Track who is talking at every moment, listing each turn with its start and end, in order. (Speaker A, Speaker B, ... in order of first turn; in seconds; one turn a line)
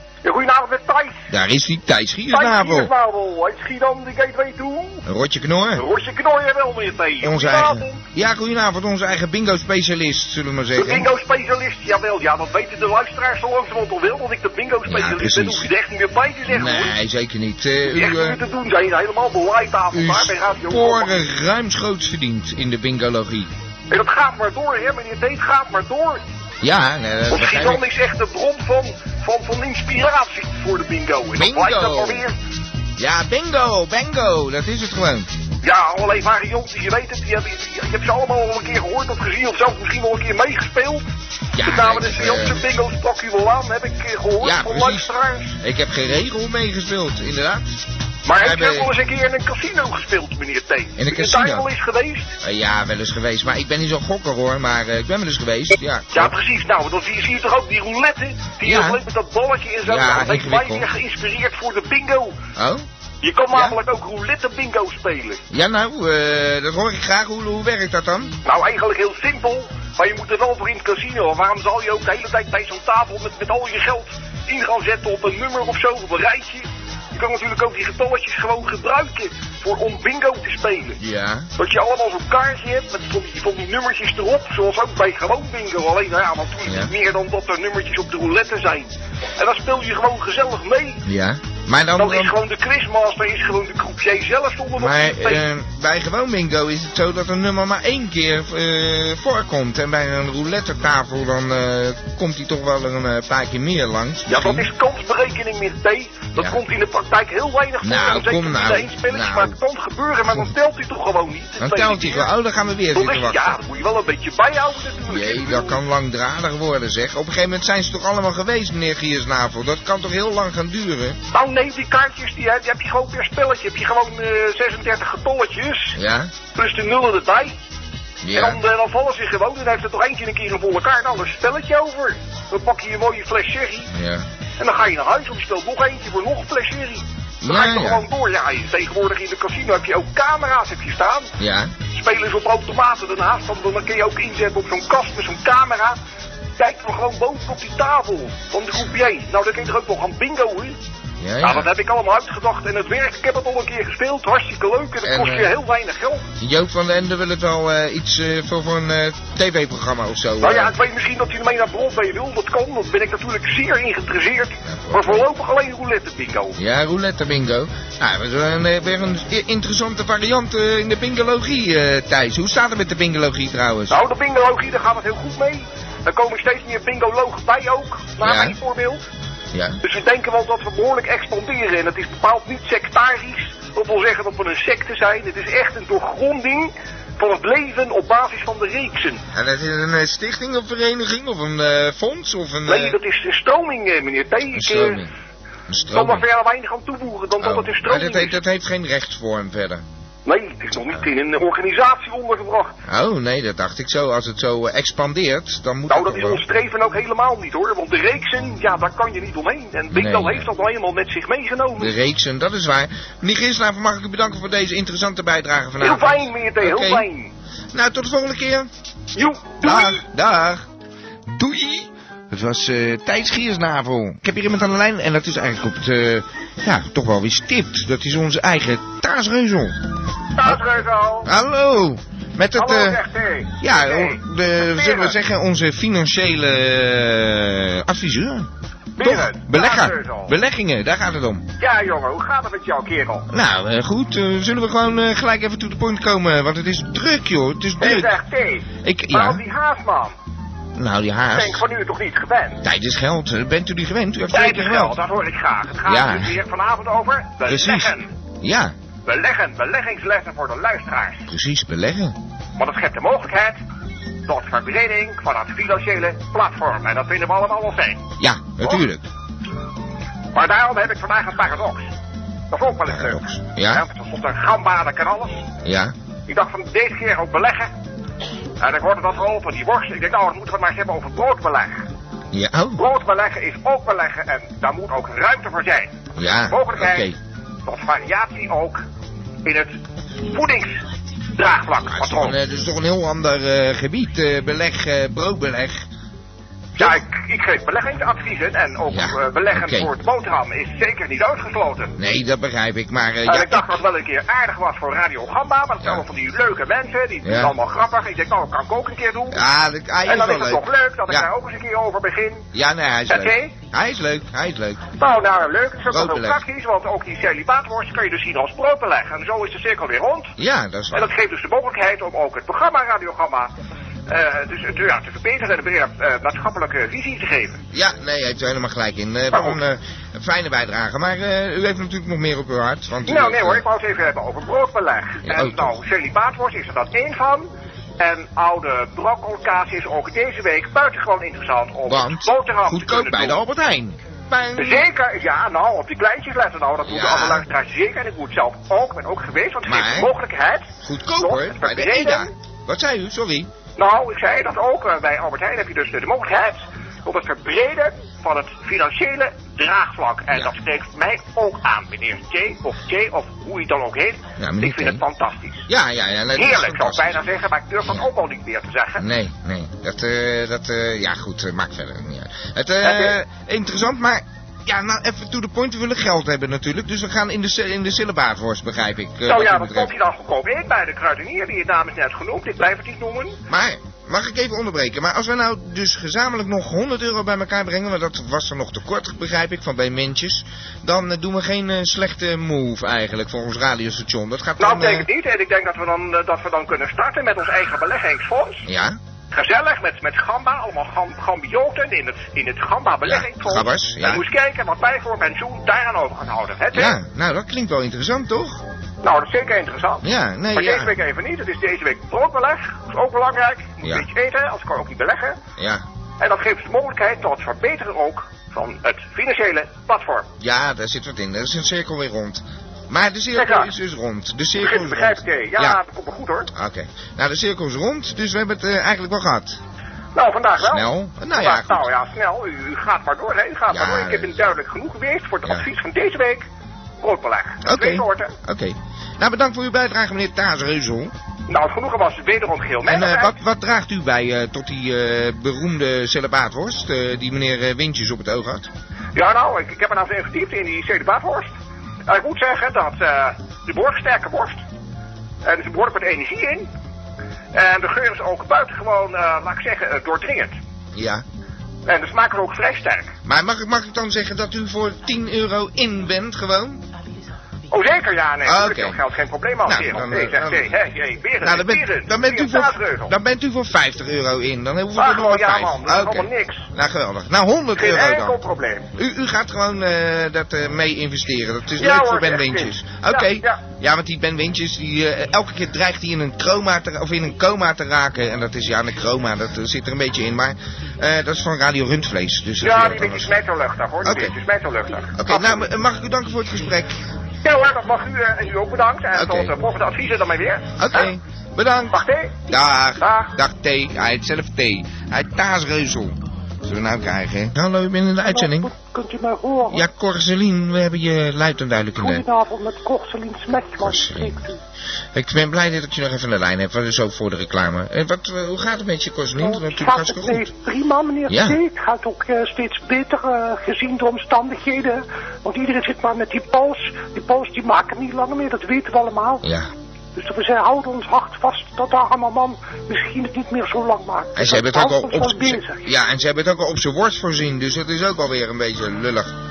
Speaker A: 0.2-1.3
Speaker B: 1.3-2.9
Speaker A: 2.3-5.0
Speaker B: 5.0-5.8
Speaker A: 5.7-8.0
Speaker B: 7.2-11.1
Speaker A: 10.8-17.0
Speaker B: 14.8-15.7
Speaker B: 16.5-18.4
Speaker A: 17.9-21.1
Speaker B: 19.9-23.5
Speaker A: 23.9-26.2
Speaker B: 26.6-27.8
Speaker A: 27.3-32.3
Speaker B: 31.4-32.2
Speaker B: 33.0-35.3
Speaker A: 35.6-41.0
Speaker B: 41.5-42.6
Speaker A: 41.6-45.6
Speaker B: 44.4-47.8
Speaker A: 48.2-52.3
Speaker B: 48.3-48.9
Speaker B: 51.0-51.7
Speaker B: 52.4-56.3
Speaker A: 56.1-62.4
Speaker B: 58.6-59.0
Speaker B: 59.8-60.9
Speaker B: 62.5-62.8
Speaker A: 63.2-65.4
Speaker B: 63.5-63.8
Speaker B: 65.5-68.3
Speaker A: 68.4-81.0
Speaker B: 81.0-81.5
Speaker A: 81.6-91.0
Speaker B: 86.7-86.9
Speaker B: 91.0-92.3
Speaker A: 92.0-95.4
Speaker B: 94.8-104.7
Speaker A: 104.3-112.3
Speaker B: 106.3-106.6
Speaker B: 107.8-109.6
Speaker B: 111.6-113.6
Speaker A: 112.9-115.8
Speaker B: 115.1-121.2
Speaker A: 121.3-126.0
Speaker B: 125.9-126.3
Speaker A: 126.5-127.5
Speaker B: 128.2-128.6
Speaker A: 128.3-133.9
Speaker B: 133.9-134.2
Speaker A: 134.6-141.3
Speaker B: 137.4-138.0
Speaker B: 141.4-141.7
Speaker A: 141.9-146.0
Speaker A: 146.6-150.8
Speaker B: 151.2-151.7
Speaker A: 151.4-156.2
Speaker B: 155.0-155.5
Speaker B: 156.4-160.7
Speaker A: 160.4-166.6
Speaker B: 164.6-165.3
Speaker B: 166.6-174.0
Speaker A: 173.9-179.0
Speaker B: 178.2-178.6
Speaker B: 179.5-179.8
Speaker A: 179.8-189.2
Speaker B: 189.3-193.0
Speaker A: 192.7-195.0
Speaker B: 194.5-195.1
Speaker B: 195.7-196.2
Speaker A: 195.9-198.4
Speaker B: 197.4-199.8
Speaker A: 200.2-202.7
Speaker B: 202.8-206.4
Speaker A: 205.9-211.9
Speaker B: 209.9-210.5
Speaker B: 211.8-217.1
Speaker A: 215.8-217.3
Speaker B: 217.7-218.7
Speaker A: 219.2-220.0
Speaker B: 219.6-220.6
Speaker B: 221.3-229.8
Speaker A: 230.3-231.3
Speaker B: 231.2-233.0
Speaker A: 232.6-235.2
Speaker B: 233.6-241.5
Speaker A: 239.0-240.3
Speaker A: 241.6-243.3
Speaker B: 243.3-248.2
Speaker A: 247.8-250.1
Speaker B: 248.8-249.4
Speaker B: 250.7-251.7
Speaker A: 251.3-252.6
Speaker B: 252.6-254.9
Speaker A: 254.3-258.1
Speaker B: 255.8-256.4
Speaker B: 257.4-258.7
Speaker A: 259.1-261.3
Speaker B: 261.3-262.1
Speaker A: 262.6-263.6
Speaker A: 264.2-268.0
Speaker B: 268.2-269.1
Speaker A: 270.3-271.9
Speaker A: 272.5-275.4
Speaker B: 272.9-273.8
Speaker B: 275.6-275.9
Speaker A: 276.3-277.7
Speaker A: 278.6-281.8
Speaker B: 282.3-282.8
Speaker A: 282.8-286.0
Speaker B: 286.1-287.1
Speaker A: 286.5-287.1
Speaker A: 287.6-288.8
Speaker A: 289.4-289.7
Speaker A: 290.3-290.8
Speaker A: 291.4-292.4
Speaker B: 291.9-295.9
Speaker A: 296.8-301.9
Speaker B: 298.9-299.9
Speaker B: 302.0-303.8
Speaker A: 303.2-309.4
Speaker B: 307.2-307.5
Speaker B: 309.3-311.3
Speaker A: 310.1-312.4
Speaker B: 312.5-314.9
Speaker A: 313.1-313.5
Speaker A: 315.0-320.3
Speaker B: 315.9-316.4
Speaker B: 320.4-321.1
Speaker A: 320.9-323.5
Speaker A: 324.1-327.6
Speaker B: 327.7-333.6
Speaker A: 329.3-329.6
Speaker A: 333.1-337.4
Speaker B: 335.2-335.7
Speaker A: 338.0-343.4
Speaker B: 341.9-344.9
Speaker A: 344.6-352.3
Speaker B: 346.8-347.5
Speaker B: 349.6-350.1
Speaker B: 350.8-353.5
Speaker A: 353.8-365.7
Speaker B: 364.4-365.0
Speaker B: 365.7-367.2
Speaker A: 366.3-369.0
Speaker B: 369.0-379.9
Speaker A: 372.8-373.1
Speaker A: 379.3-383.4
Speaker B: 383.5-395.1
Speaker A: 394.6-398.6
Speaker B: 398.6-399.0
Speaker A: 399.3-407.0
Speaker B: 403.0-404.2
Speaker B: 406.7-408.6
Speaker A: 409.0-415.4
Speaker B: 410.0-410.9
Speaker B: 415.6-415.8
Speaker A: 416.2-420.3
Speaker B: 420.4-425.8
Speaker A: 423.3-423.7
Speaker A: 424.6-426.5
Speaker B: 426.5-429.6
Speaker A: 430.1-436.4
Speaker B: 430.6-431.9
Speaker B: 433.7-434.3
Speaker A: 437.0-438.3
Speaker B: 437.6-441.1
Speaker A: 441.5-443.4
Speaker B: 442.9-448.7
Speaker A: 449.1-451.5
Speaker A: 452.1-454.6
Speaker A: 455.4-456.7
Speaker A: 457.5-460.5
Speaker B: 460.9-461.2
Speaker A: 461.9-463.1
Speaker B: 463.2-466.8
Speaker A: 467.7-473.1
Speaker B: 468.4-469.0
Speaker B: 469.6-470.7
Speaker B: 471.4-478.4
Speaker A: 474.9-476.6
Speaker A: 477.8-478.9
Speaker B: 478.9-493.3
Speaker A: 481.8-483.6
Speaker A: 492.6-495.7
Speaker B: 494.0-494.4
Speaker B: 495.1-496.9
Speaker A: 497.4-501.1
Speaker B: 499.1-499.5
Speaker B: 500.8-508.7
Speaker A: 501.9-502.5
Speaker A: 503.0-503.3
Speaker C: 508.2-509.9
Speaker B: 509.7-512.2
Speaker C: 512.0-514.6
Speaker B: 513.8-514.3
Speaker B: 515.1-520.5
Speaker C: 519.4-529.4
Speaker B: 521.3-521.6
Speaker B: 529.4-529.7
Speaker C: 530.1-535.8
Speaker B: 534.4-539.3